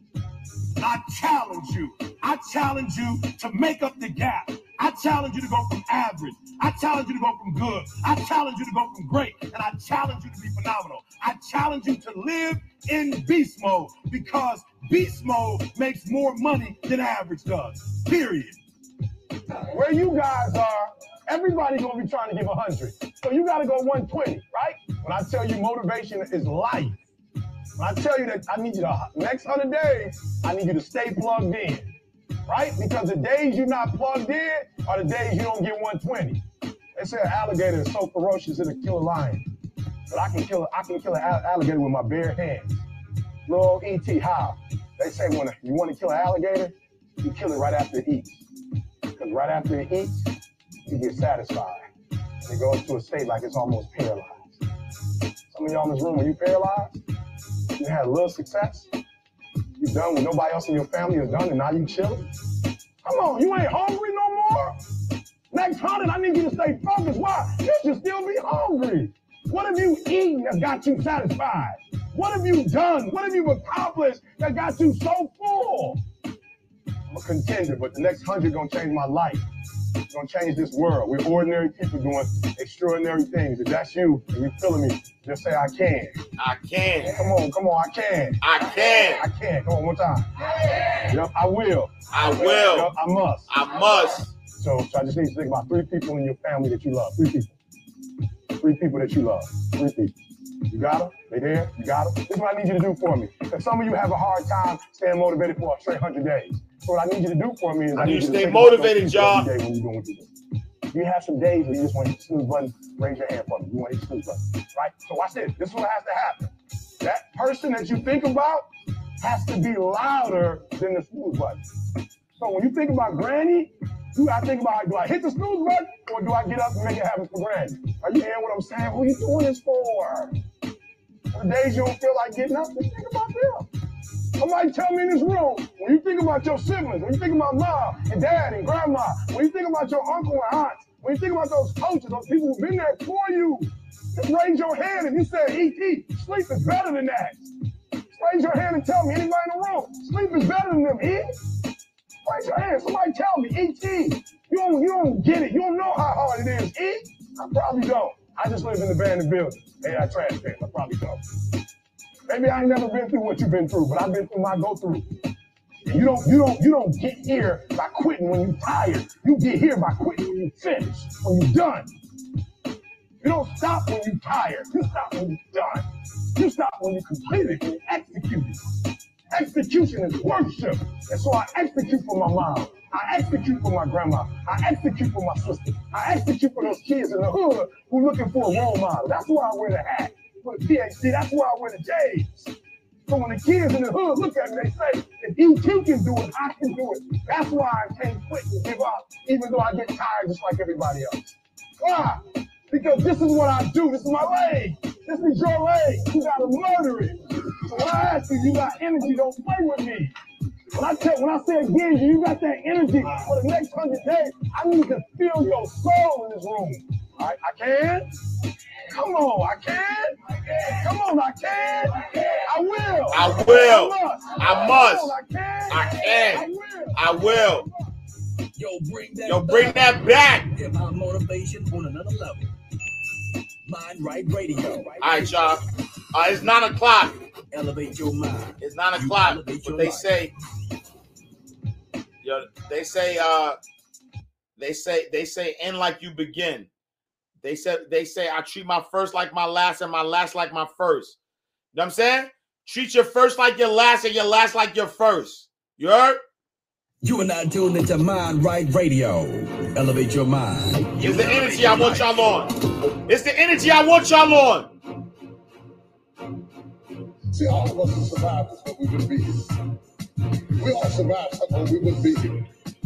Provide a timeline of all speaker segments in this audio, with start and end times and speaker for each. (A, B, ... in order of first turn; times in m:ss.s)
0:00.8-0:18.6 A
0:19.7-0:27.0 B
0:27.8-0:31.9 B
0:32.5-0:36.4 B
0:37.0-0:39.5 B
0:40.1-0:42.8 B
0:43.5-0:48.4 B
0:49.2-0:50.3 B
0:50.9-0:51.9 B
0:52.4-0:54.6 B
0:55.5-0:57.0 B
0:57.8-0:58.9 B
0:59.8-1:02.3 B
1:03.0-1:04.8 B
1:05.5-1:16.0 B
1:17.1-1:19.5 B
1:20.1-1:26.2 B
1:26.4-1:27.3 C
1:27.1-1:32.0 B
1:28.4-1:29.3 C
1:32.1-1:32.9 C
1:32.5-1:33.5 B
1:33.5-1:34.3 C
1:34.5-1:37.6 B
1:38.6-1:40.2 B
1:40.7-1:50.3 B
1:48.0-1:49.5 C
1:50.9-1:58.7 B
1:59.2-2:01.6 B
2:02.4-2:10.4 B
2:11.3-2:13.7 B
2:14.4-2:27.5 B
2:28.1-2:31.4 B
2:32.2-2:41.3 B
2:42.3-2:45.2 B
2:45.9-2:51.9 B
2:53.2-2:58.6 B
2:59.3-3:12.5 B
3:13.1-3:30.1 B
3:30.7-3:38.1 B
3:38.9-3:47.7 B
3:43.1-3:45.2 C
3:45.7-3:47.7 C
3:48.6-3:52.5 D
3:49.3-3:50.5 C
3:53.6-3:55.6 D
3:55.0-3:55.6 C
3:56.1-3:57.1 C
3:57.5-4:00.3 D
3:58.6-4:00.3 C
4:02.2-4:03.6 C
4:04.6-4:06.7 C
4:07.4-4:11.2 C
4:11.7-4:16.2 C
4:17.0-4:22.2 D
4:21.0-4:24.7 C
4:27.3-4:29.5 E
4:30.5-4:32.5 E